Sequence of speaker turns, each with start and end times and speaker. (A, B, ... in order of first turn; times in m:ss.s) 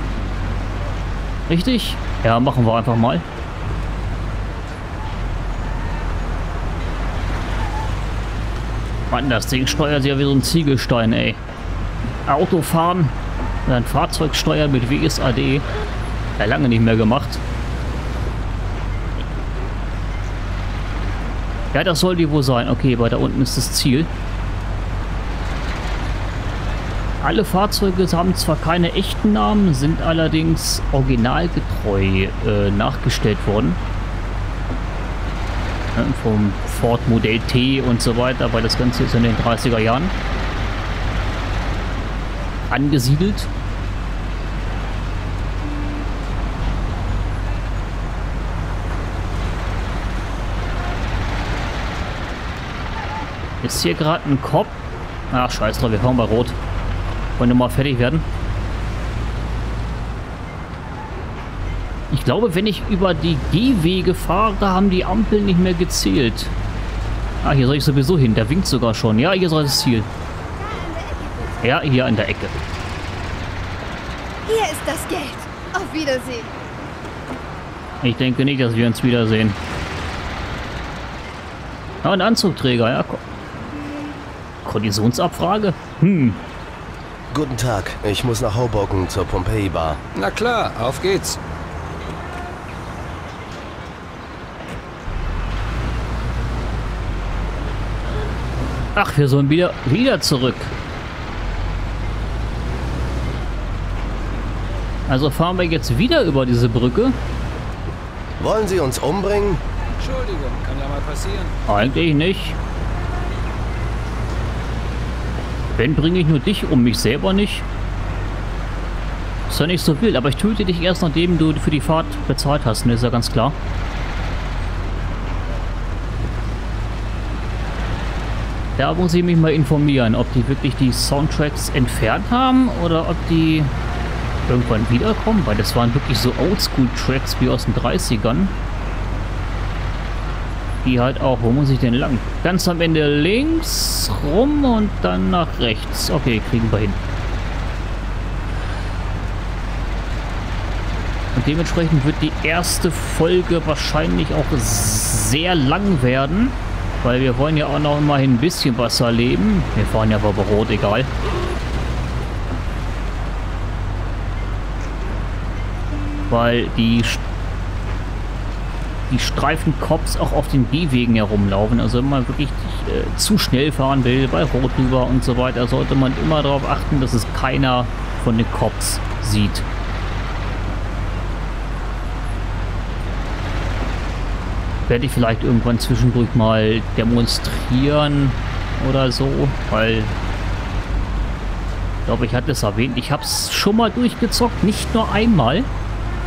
0:01.5-0:03.2 A
0:09.1-0:11.4 A
0:12.3-0:13.1 A
0:13.6-0:15.6 A
0:16.4-0:17.4 A
0:21.7-0:24.1 A
0:27.2-0:33.8 A
0:36.0-0:40.1 A
0:42.7-0:43.5 A
0:53.6-0:54.8 A
0:55.3-0:56.6 A
0:57.4-0:58.2 A
1:02.1-1:06.5 A
1:07.4-1:10.1 A
1:10.6-1:11.6 B
1:11.6-1:12.5 A
1:14.4-1:16.5 B
1:18.0-1:19.6 A
1:22.0-1:23.2 A
1:24.6-1:26.4 A
1:27.3-1:30.0 C
1:30.1-1:31.4 D
1:38.9-1:40.7 A
1:45.1-1:47.2 A
1:48.4-1:49.6 C
1:50.0-1:51.6 D
1:51.7-1:52.6 A
1:55.7-1:57.6 A
1:59.5-2:03.6 A
2:08.8-2:13.7 A
2:14.5-2:18.5 A
2:20.8-2:27.0 A
2:31.3-2:41.1 A
2:46.3-2:47.2 A
2:49.1-2:59.6 A
3:04.9-3:10.1 A
3:12.0-3:15.7 A